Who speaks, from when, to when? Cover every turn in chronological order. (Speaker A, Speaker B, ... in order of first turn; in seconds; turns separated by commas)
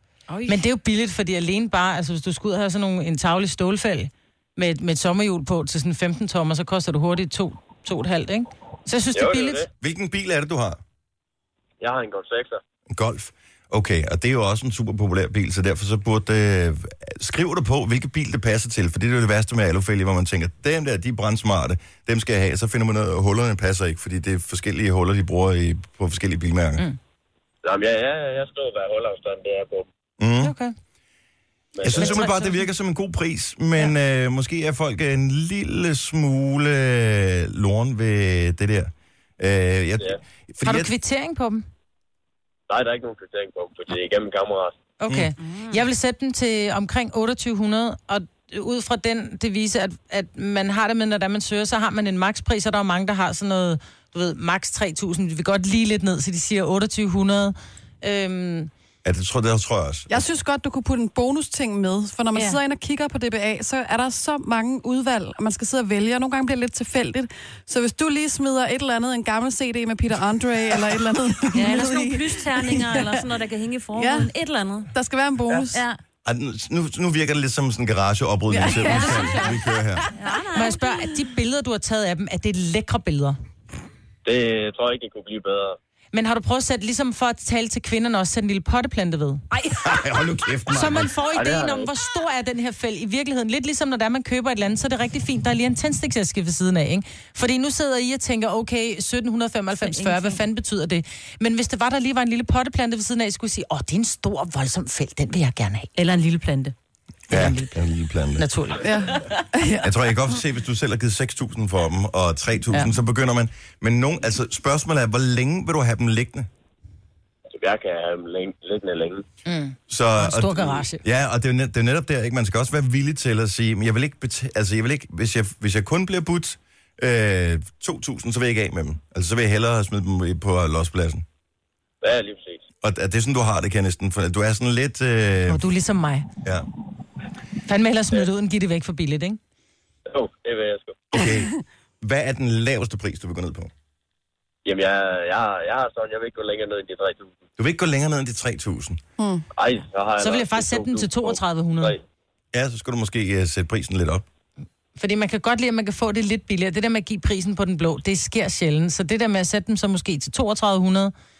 Speaker A: 0.3-0.6, Speaker B: 0.5-9.7, Speaker C: 9.1-9.7, Speaker D: 9.8-10.8, Speaker C: 11.8-12.6, Speaker D: 12.9-26.8, Speaker C: 27.6-29.9, Speaker D: 30.2-30.5, Speaker B: 30.4-30.8, Speaker C: 31.8-32.2, Speaker D: 31.8-40.9, Speaker B: 32.0-32.7, Speaker B: 40.6-41.7, Speaker C: 42.7-44.8, Speaker B: 45.0-58.7, Speaker A: 45.4-45.8, Speaker D: 59.0-60.2, Speaker E: 60.1-73.2, Speaker A: 62.3-62.6, Speaker A: 71.5-74.9, Speaker E: 74.0-74.3, Speaker E: 74.9-75.8, Speaker A: 75.7-76.0, Speaker D: 76.2-80.1, Speaker E: 78.5-80.2, Speaker A: 78.8-79.6, Speaker A: 80.1-80.9, Speaker B: 80.5-83.4, Speaker C: 84.2-85.8, Speaker B: 86.1-89.4, Speaker A: 89.5-89.9, Speaker D: 89.8-91.1, Speaker B: 90.7-105.9, Speaker C: 91.3-91.9, Speaker A: 99.8-100.4, Speaker A: 106.0-106.7, Speaker D: 107.3-108.5, Speaker B: 107.3-107.8, Speaker B: 108.4-109.0, Speaker E: 108.8-110.0, Speaker D: 109.8-116.5, Speaker C: 117.5-119.2, Speaker B: 119.5-121.0, Speaker D: 119.9-131.2, Speaker C: 132.0-132.6, Speaker D: 132.8-135.7, Speaker B: 135.5-136.3, Speaker B: 137.7-139.4, Speaker C: 140.1-141.1, Speaker D: 141.1-143.7, Speaker C: 144.7-147.3, Speaker D: 147.6-149.0, Speaker E: 149.2-149.4, Speaker C: 149.5-152.0, Speaker B: 150.2-152.0, Speaker D: 152.5-154.2, Speaker B: 155.0-161.1